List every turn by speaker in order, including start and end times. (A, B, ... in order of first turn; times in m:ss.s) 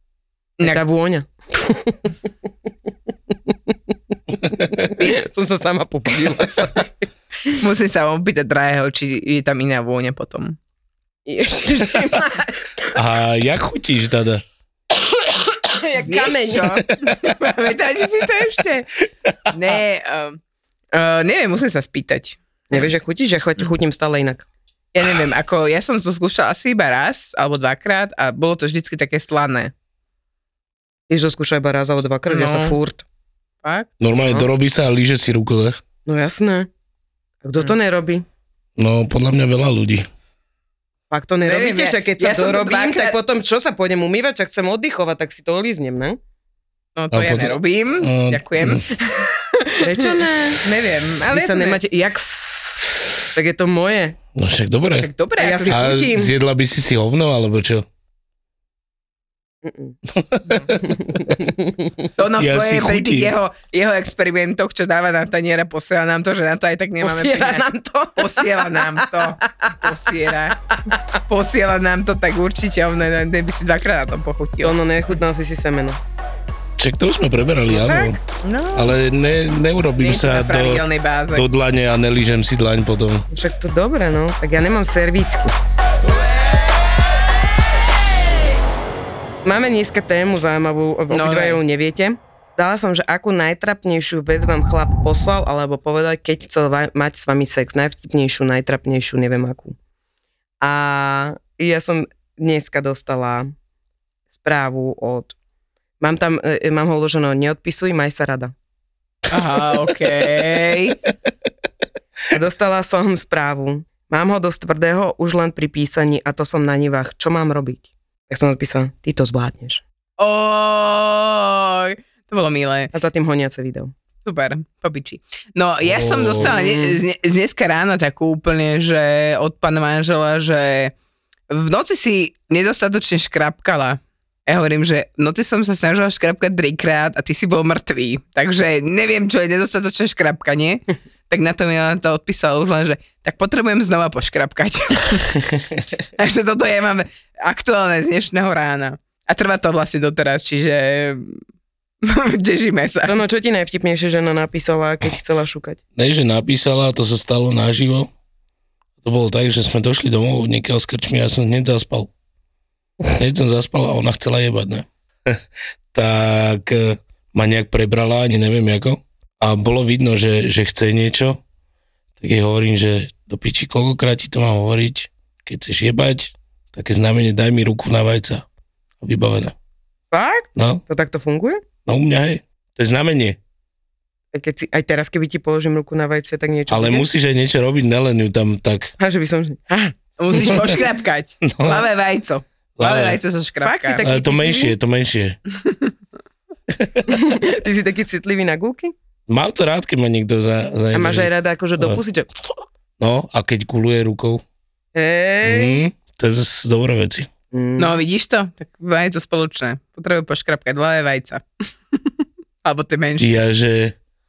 0:00.6-0:02.1 A
0:04.6-0:07.1 A
0:07.6-0:10.6 B
0:11.3-0:12.7 A
0:13.0-0:14.4 C
0:15.5-0:16.9 A
0:16.0-0:18.9 B
0:19.5-0:20.4 B
0:20.9-0:22.4 B
0:22.7-0:24.5 A
0:24.9-0:29.7 B
0:31.1-0:33.0 A
0:32.3-0:32.8 B
0:33.6-0:33.9 B
0:34.0-0:35.8 C
0:36.1-0:36.7 A
0:37.4-0:38.2 A
0:38.8-0:40.1 C
0:41.1-0:46.2 A
0:41.4-0:43.2 B
0:47.0-0:51.8 B
0:47.1-0:48.8 C
0:49.8-0:50.6 A
0:51.3-0:54.2 A
0:54.4-0:55.1 C
0:55.0-0:55.8 B
0:55.4-0:56.3 A
0:55.7-0:57.9 C
0:59.6-1:00.0 A
1:00.1-1:00.5 C
1:00.8-1:01.9 A
1:02.2-1:07.6 B
1:02.4-1:03.4 C
1:07.0-1:09.0 A
1:08.2-1:10.6 B
1:11.3-1:14.8 B
1:14.6-1:16.0 A
1:16.8-1:18.2 C
1:17.7-1:18.2 A
1:18.4-1:19.0 B
1:18.8-1:23.3 C
1:20.0-1:21.4 B
1:23.3-1:25.5 A
1:29.4-1:39.8 A
1:31.1-1:31.6 B
1:40.6-1:43.5 A
1:44.3-1:45.3 A
1:46.0-1:48.5 A
1:49.3-1:51.0 B
1:52.3-1:59.8 A
2:00.2-2:02.9 B
2:02.9-2:03.9 A
2:04.2-2:10.9 B
2:05.8-2:06.5 C
2:06.4-2:07.0 A
2:11.5-2:25.5 B
2:26.2-2:31.4 B
2:32.0-2:33.2 B
2:33.1-2:35.8 A
2:36.0-2:38.1 C
2:39.0-2:42.1 C
2:43.1-2:45.4 C
2:45.9-2:51.4 C
2:52.2-2:58.4 C
2:59.0-2:59.6 C
3:00.1-3:01.6 A
3:00.6-3:00.8 C
3:01.8-3:03.4 C
3:04.3-3:07.0 A
3:06.7-3:08.9 C
3:09.0-3:09.9 A
3:10.2-3:14.1 B
3:11.4-3:11.9 C
3:12.8-3:13.2 C
3:13.6-3:14.7 A
3:14.0-3:15.4 C
3:15.6-3:15.9 B
3:16.7-3:17.0 C
3:17.1-3:18.9 A
3:19.3-3:22.0 C
3:20.9-3:22.3 A
3:23.0-3:24.4 C
3:25.0-3:25.7 A
3:25.4-3:27.3 C
3:27.5-3:28.0 A
3:27.8-3:31.4 B
3:32.6-3:33.4 B
3:33.2-3:34.0 C